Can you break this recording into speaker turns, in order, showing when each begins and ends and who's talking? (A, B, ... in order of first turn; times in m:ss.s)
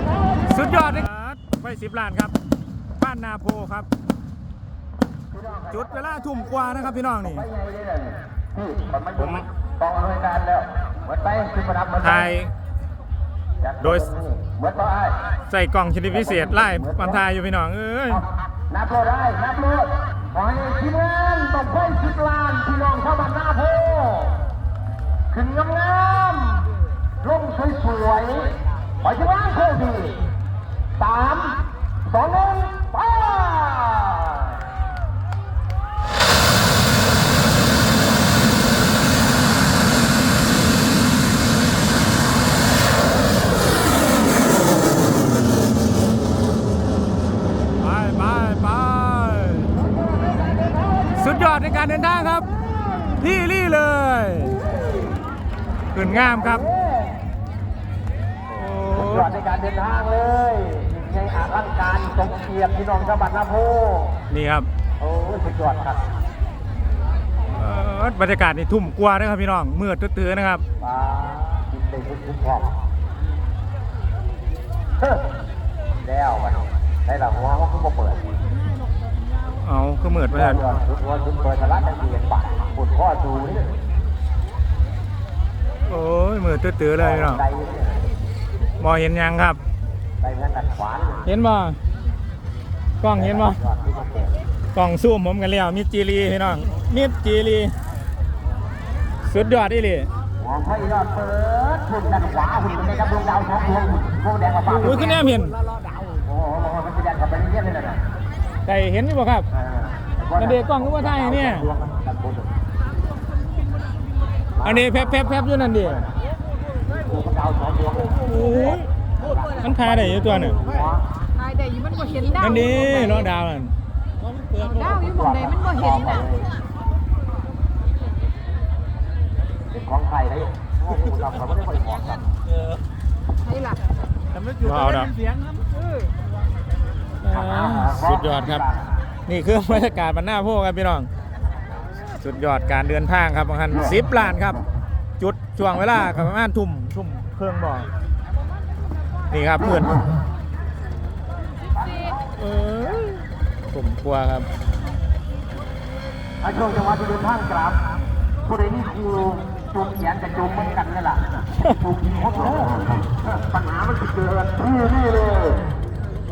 0:00.4-0:02.4 A
0:03.0-0:03.9 A
0:05.7-0:07.5 A
0:09.1-0:09.5 A
0:10.0-0:10.6 B
0:11.2-0:11.9 B
0:12.0-0:12.5 A
0:13.8-0:14.2 A
0:14.3-0:15.1 B
0:15.5-0:18.3 A
0:18.8-0:24.4 B
0:25.3-0:26.7 B
0:27.2-0:30.2 B
0:31.0-0:34.4 B
0:47.8-0:49.8 A
0:51.1-0:52.5 A
0:53.0-0:54.7 A
0:55.9-0:56.8 A
0:58.5-0:59.5 A
0:59.5-1:04.1 B
1:04.3-1:04.7 A
1:05.1-1:05.9 B
1:07.5-1:10.6 A
1:10.9-1:12.6 B
1:16.2-1:16.5 B
1:17.2-1:18.1 B
1:19.5-1:20.8 A
1:20.8-1:23.6 B
1:25.9-1:27.5 A
1:28.8-1:29.6 A
1:30.4-1:31.1 B
1:31.2-1:31.8 A
1:33.0-1:33.7 A
1:33.7-1:34.0 B
1:34.7-1:37.8 A
1:39.2-1:40.1 A
1:40.7-1:44.7 B
1:44.7-1:45.6 A
1:46.6-1:47.8 B
1:48.7-1:49.5 A
1:50.3-1:51.8 A
1:54.6-1:56.1 A
1:57.3-1:58.1 B
1:58.1-1:58.9 A
1:59.4-2:00.7 A
2:01.5-2:02.3 C
2:02.3-2:03.7 A
2:04.7-2:05.8 C
2:04.8-2:06.3 B
2:10.1-2:12.0 B
2:14.4-2:15.3 A
2:17.2-2:18.7 A
2:19.3-2:21.1 A
2:22.2-2:24.6 A
2:25.2-2:27.9 A
2:29.3-2:30.1 A
2:32.3-2:34.5 A
2:36.4-2:37.8 B
2:38.5-2:41.2 B
2:43.9-2:44.8 B